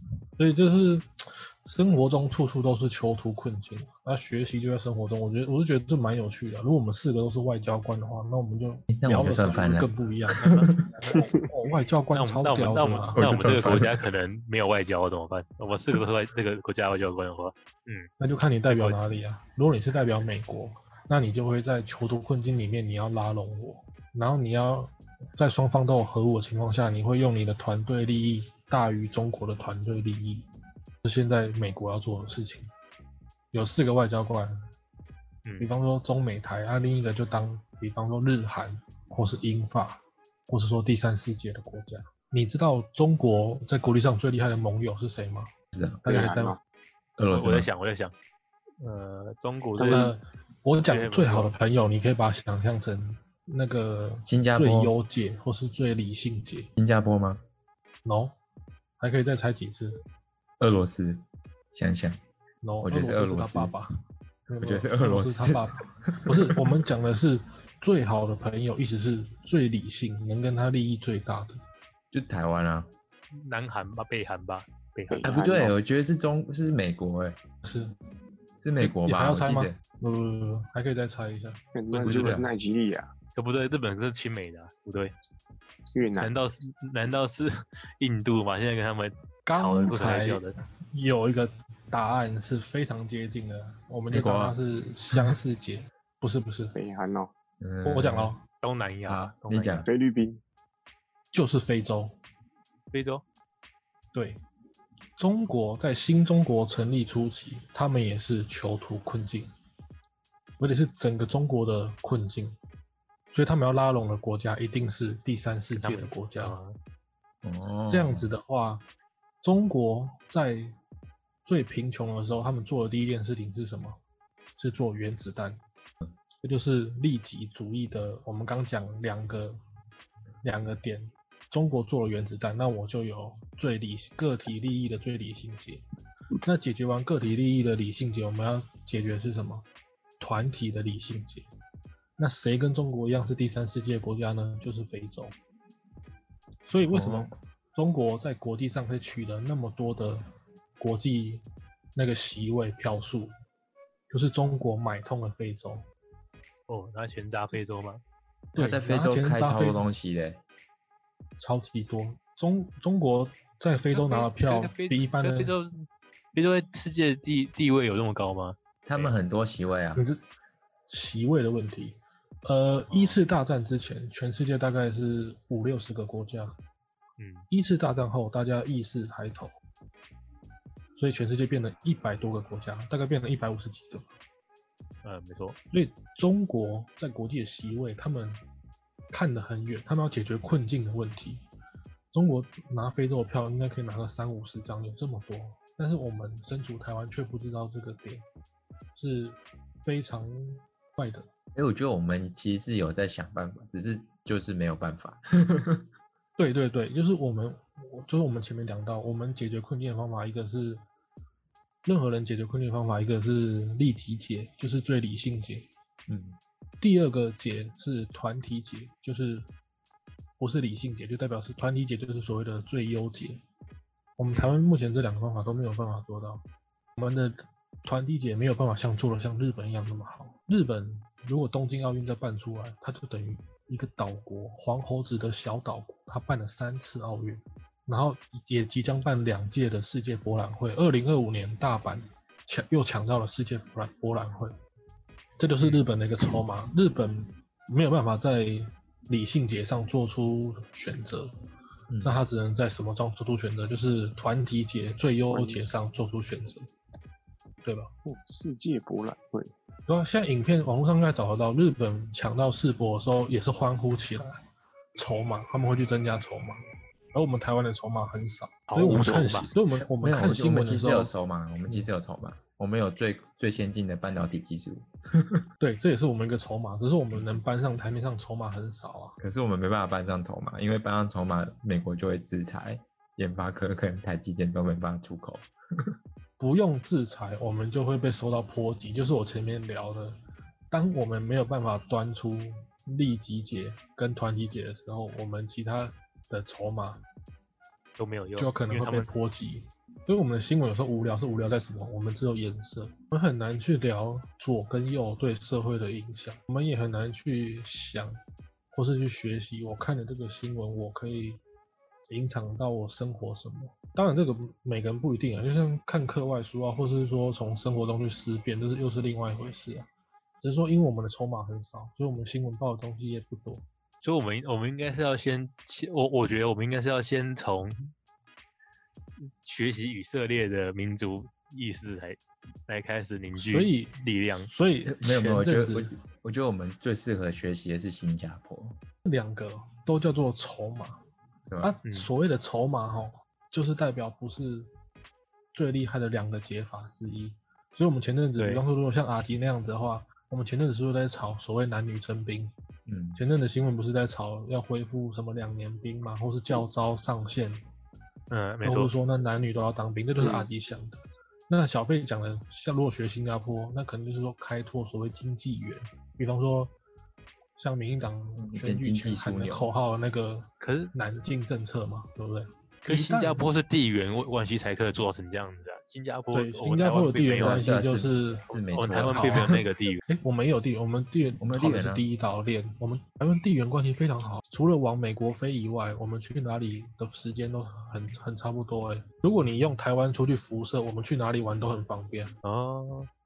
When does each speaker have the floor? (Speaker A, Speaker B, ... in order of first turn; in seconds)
Speaker A: 0.4-10.5, 11.1-13.2, 18.2-30.5, 31.0-32.7, 33.5-34.5, 35.6-45.5, 46.0-46.6, 49.8-56.7, 58.0-58.3, 59.0-60.0, 62.6-63.9, 64.5-71.6, 77.6-77.9, 78.8-82.0, 89.5-96.7, 97.8-98.4, 101.3-102.2, 104.1-104.4, 105.2-109.5, 110.6-112.6, 113.3-116.6, 117.9-118.8, 119.4-120.8, 121.4-124.0, 124.6-125.6, 126.4-129.6, 130.4-135.8, 136.4-139.6, 140.2-141.5, 142.2-145.3, 146.7-150.2, 150.8-151.4, 151.9-153.3, 154.1-155.9, 158.6-159.8, 161.4-165.5, 169.9-170.2, 170.9-176.5, 177.5-179.5, 180.9-184.1, 185.7-188.4, 189.1-191.4, 192.1-198.2, 198.9-201.3, 206.4-210.8, 211.8-215.7, 216.8-219.5, 220.4-223.4, 224.2-226.4, 227.0-244.5, 245.4-251.3, 252.0-256.7, 257.6-257.9, 259.9-264.4, 264.9-266.6, 267.1-271.1, 275.6-279.2, 286.4-290.2, 290.7-297.0, 298.4-308.2, 308.7-311.4, 312.1-319.9, 320.4-323.6, 333.4-335.9, 339.0-341.0, 341.6-344.7, 345.5-352.5, 353.1-357.6, 358.6-366.7, 367.6-373.5, 376.3-378.5, 379.1-379.6, 380.1-392.3
Speaker B: 8.9-10.8, 13.2-14.1, 45.7-46.0, 47.2-47.7, 54.2-54.9, 56.8-57.4, 60.6-62.2, 62.8-63.7, 64.6-66.7, 72.1-72.9, 75.2-77.4, 78.6-79.8, 82.0-82.5, 94.1-94.6, 97.6-98.3, 99.0-99.9, 117.4-118.3, 146.9-147.3, 158.5-160.4, 168.8-170.0, 201.5-205.8, 216.1-216.4, 251.9-252.2, 270.0-275.4, 277.1-277.4, 279.2-285.9, 334.9-338.8, 341.5-341.7, 352.9-353.2, 368.4-369.6, 377.3-379.5, 381.4-382.1
Speaker C: 10.4-11.2, 12.1-18.1, 18.7-19.0, 35.5-35.7, 47.3-48.1, 48.8-50.1, 50.8-51.5, 73.4-75.3, 83.3-85.1, 86.2-90.5, 98.6-99.9, 102.9-103.2, 115.7-116.7, 156.7-158.0, 163.9-169.1, 172.9-173.2, 177.2-177.5, 185.0-185.6, 268.7-269.5, 298.0-299.1, 324.0-327.9, 329.2-334.5, 348.4-348.6, 358.3-358.9, 370.6-370.9, 372.9-377.6, 378.7-380.0, 392.4-393.1
Speaker D: 11.1-11.5, 46.0-46.6, 75.1-75.8, 81.7-83.1, 85.9-86.3, 96.7-97.3, 99.9-100.4, 255.3-255.7, 258.1-259.5, 360.2-360.5